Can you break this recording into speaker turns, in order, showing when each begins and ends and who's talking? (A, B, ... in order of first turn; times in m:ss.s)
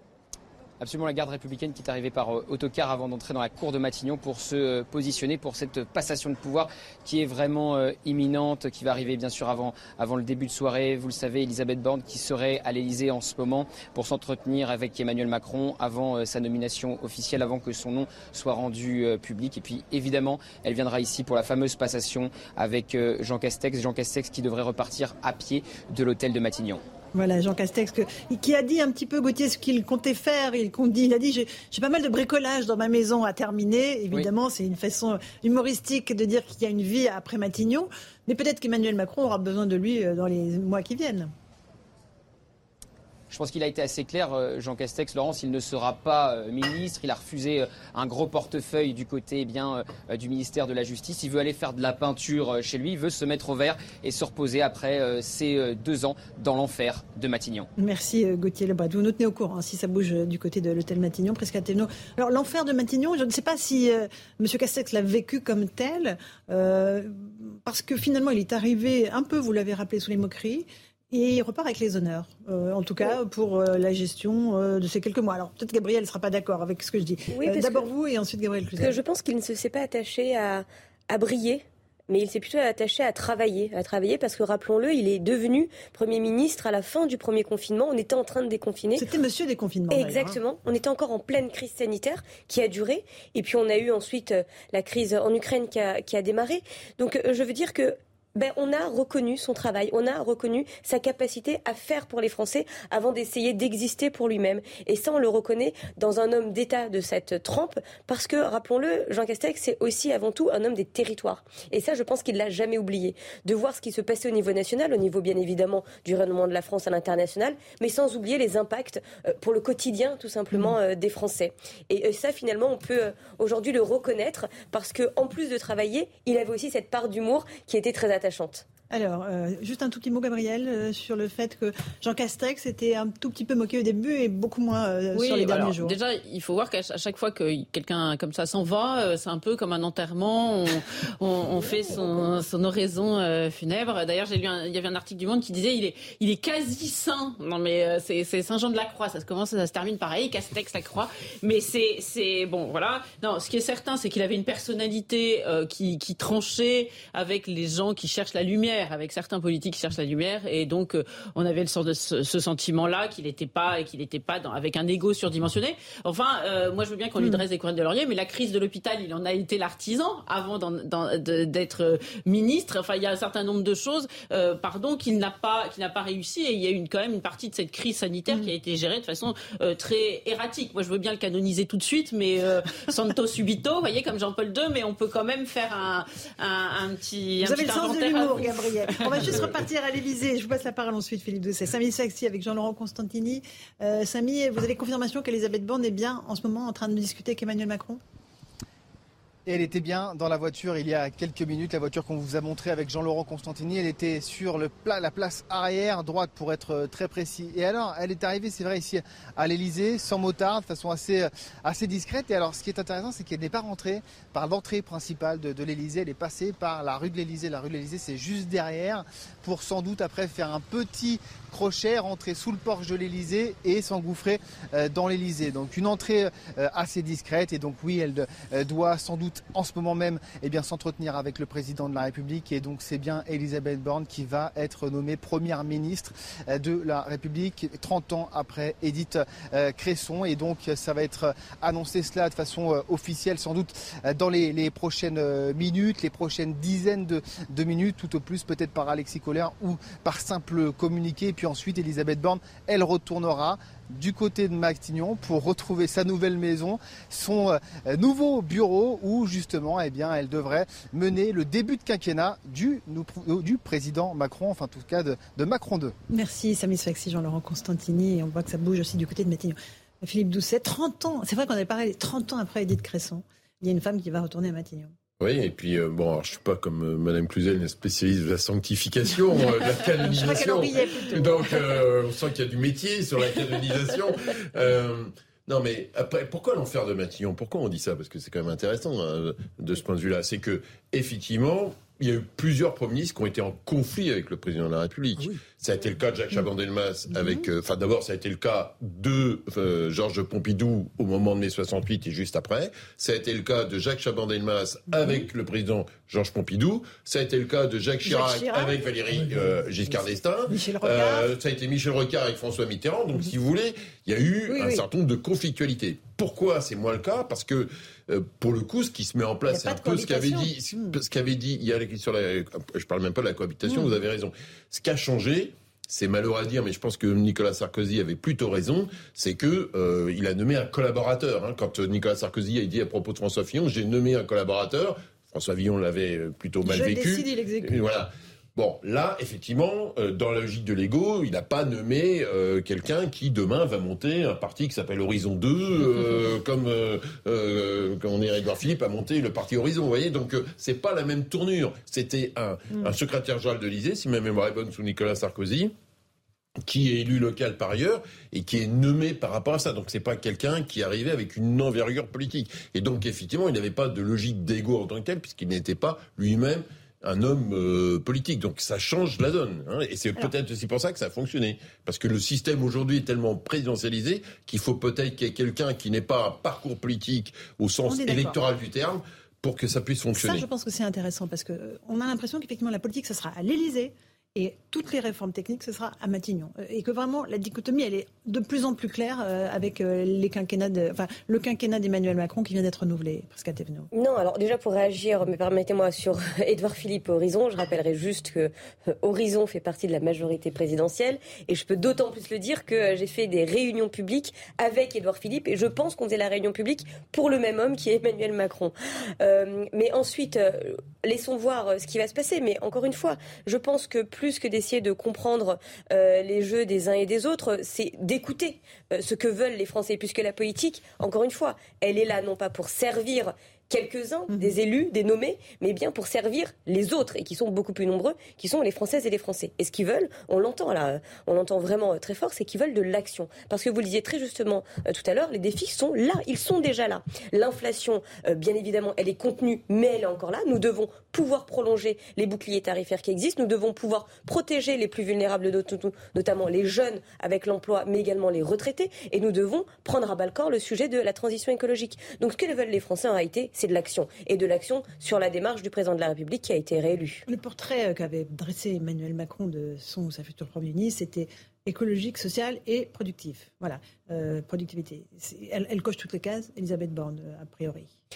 0:00.8-0:26.8 A
0:27.1-0:41.3 B
0:43.3-0:57.7 A
0:57.8-1:19.0 B
1:17.3-1:17.9 C
1:18.8-1:29.0 C
1:29.0-1:30.4 B
1:29.9-2:08.6 C
2:08.9-2:16.0 B
2:15.1-3:09.3 D
3:07.4-3:18.0 B
3:19.5-4:25.9 E
4:26.1-4:34.9 B
4:35.2-5:55.7 F
4:40.0-4:41.8 B
5:08.0-5:08.8 B
5:10.5-5:11.3 B
5:14.5-5:14.8 B
5:19.5-5:21.0 B
5:36.6-5:37.8 B
5:56.6-6:20.4 F
6:17.8-6:18.4 B
6:20.2-6:33.9 B
6:33.9-7:37.2 C
7:37.3-7:47.9 B